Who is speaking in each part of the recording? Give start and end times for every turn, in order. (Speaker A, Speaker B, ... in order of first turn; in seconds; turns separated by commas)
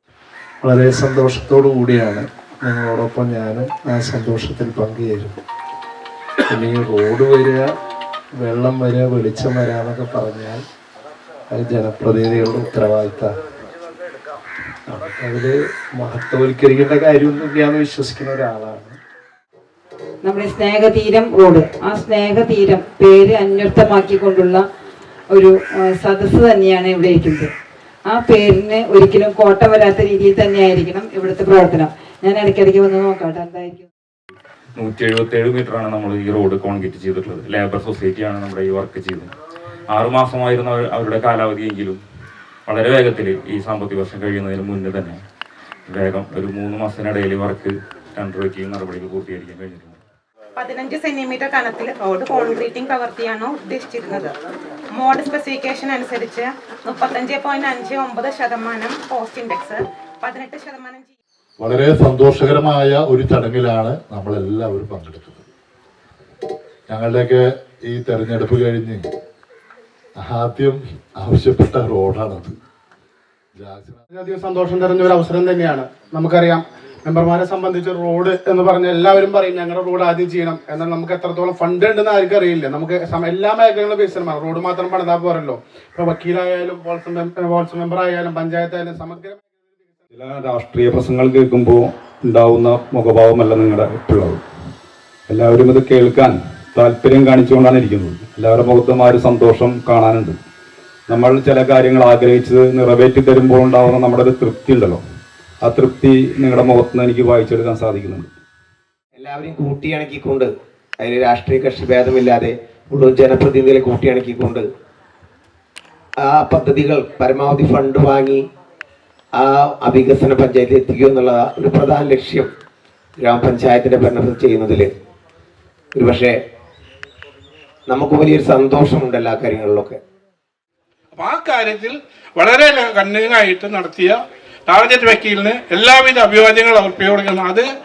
Speaker A: 0.6-5.4, Speaker A: 6.5-7.7, Speaker A: 8.4-10.6, Speaker A: 11.5-13.3, Speaker A: 14.9-19.0, Speaker B: 20.2-24.6, Speaker B: 25.3-27.5, Speaker B: 28.1-33.9, Speaker C: 34.8-39.3, Speaker C: 39.9-42.0, Speaker C: 42.7-45.2, Speaker C: 45.9-50.0, Speaker D: 50.6-54.3, Speaker D: 54.9-61.1, Speaker E: 61.6-65.4, Speaker E: 66.9-69.0, Speaker E: 70.2-72.5, Speaker E: 73.5-74.0, Speaker F: 74.1-89.4, Speaker G: 90.1-94.4, Speaker G: 95.3-100.4, Speaker G: 101.1-105.0, Speaker G: 105.6-108.3, Speaker H: 109.1-114.7, Speaker H: 116.2-118.4, Speaker H: 119.3-122.5, Speaker H: 123.2-124.9, Speaker H: 125.9-126.4, Speaker H: 127.9-130.0, Speaker I: 131.1-137.7